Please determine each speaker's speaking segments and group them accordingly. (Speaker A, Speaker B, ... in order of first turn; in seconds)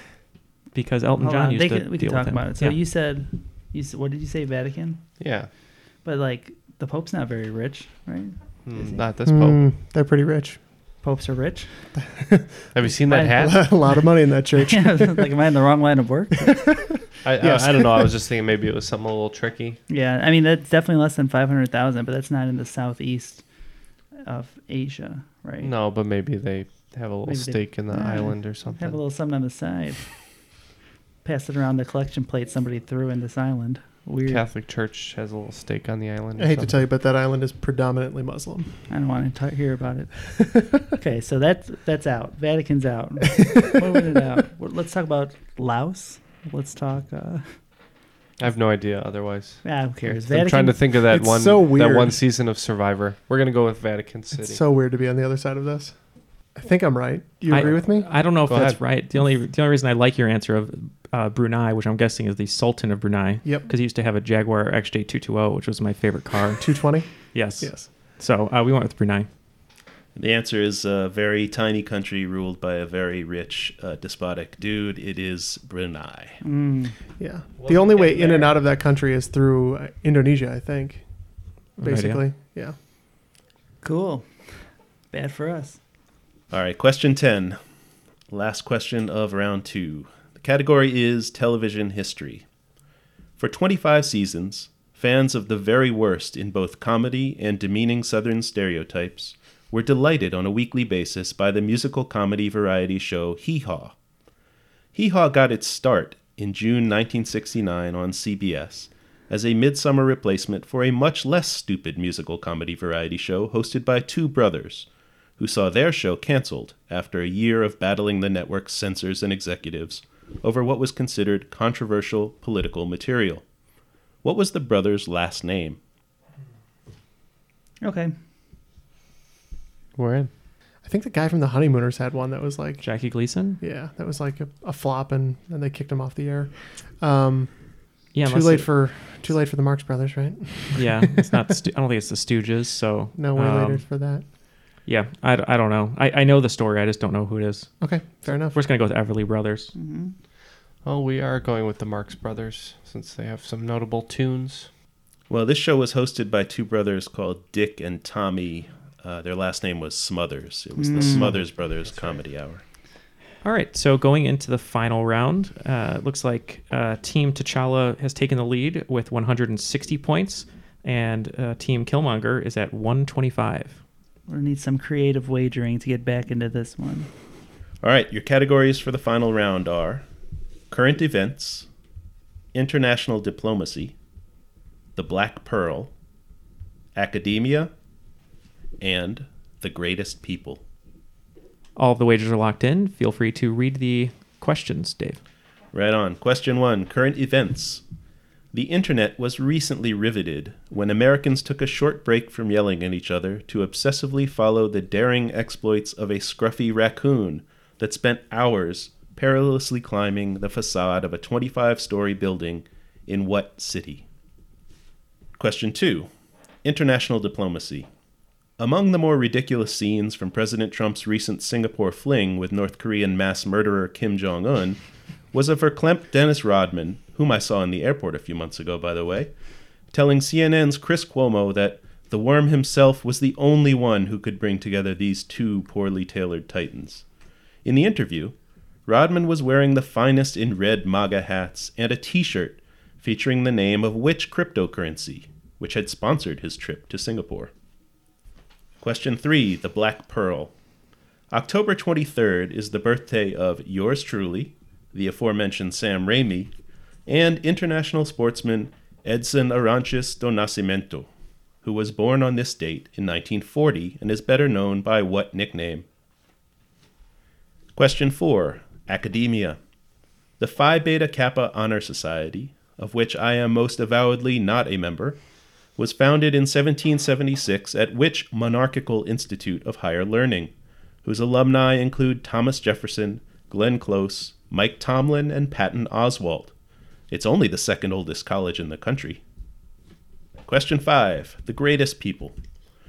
Speaker A: 0.7-2.8, 57.5-66.7, 67.2-69.3, 81.8-82.2, 132.8-133.6, 138.1-138.7, 140.8-143.9, 144.9-149.7, 163.4-173.8, 191.8-195.2
Speaker B: 1.2-5.1, 6.0-9.1, 11.0-11.9, 13.1-16.8, 19.9-23.4, 24.2-25.7, 27.2-30.1, 31.2-34.5, 38.9-47.6, 49.6-50.9, 76.4-77.0, 83.8-85.8, 127.8-128.2, 149.7-150.2, 160.8-161.3, 174.3-177.1
Speaker C: 5.2-5.5, 8.7-9.6, 12.7-13.7, 17.2-19.8, 25.6-29.0, 34.3-36.8, 48.4-54.6, 58.4-58.8, 77.6-78.5, 130.0-130.3, 150.8-154.7, 161.0-162.2
Speaker D: 9.3-10.6, 12.1-12.7, 13.3-15.3, 16.5-18.1, 36.4-38.8, 40.3-40.8, 51.1-52.2, 54.4-56.0, 56.5-58.1, 66.6-67.9, 77.2-81.0, 81.8-82.8, 130.8-132.9, 133.6-141.4, 143.2-144.2, 147.8-148.6
Speaker E: 70.2-76.4, 86.5-87.6, 88.3-92.5, 93.4-104.0, 105.0-114.9, 115.4-123.4, 124.2-125.8, 155.3-162.6, 177.8-180.1, 180.7-181.7, 182.5-183.9, 185.0-185.9, 186.9-187.7, 188.8-190.6, 195.7-197.8, 198.5-214.1, 215.4-216.1, 216.6-217.9, 218.6-224.8, 225.3-229.3, 229.9-237.0, 237.7-238.3, 238.9-247.5, 248.8-250.5, 251.3-256.5, 257.1-261.1, 261.6-265.9, 267.8-269.6, 270.4-275.2, 275.8-280.5, 281.0-286.5, 287.1-289.2, 290.5-292.4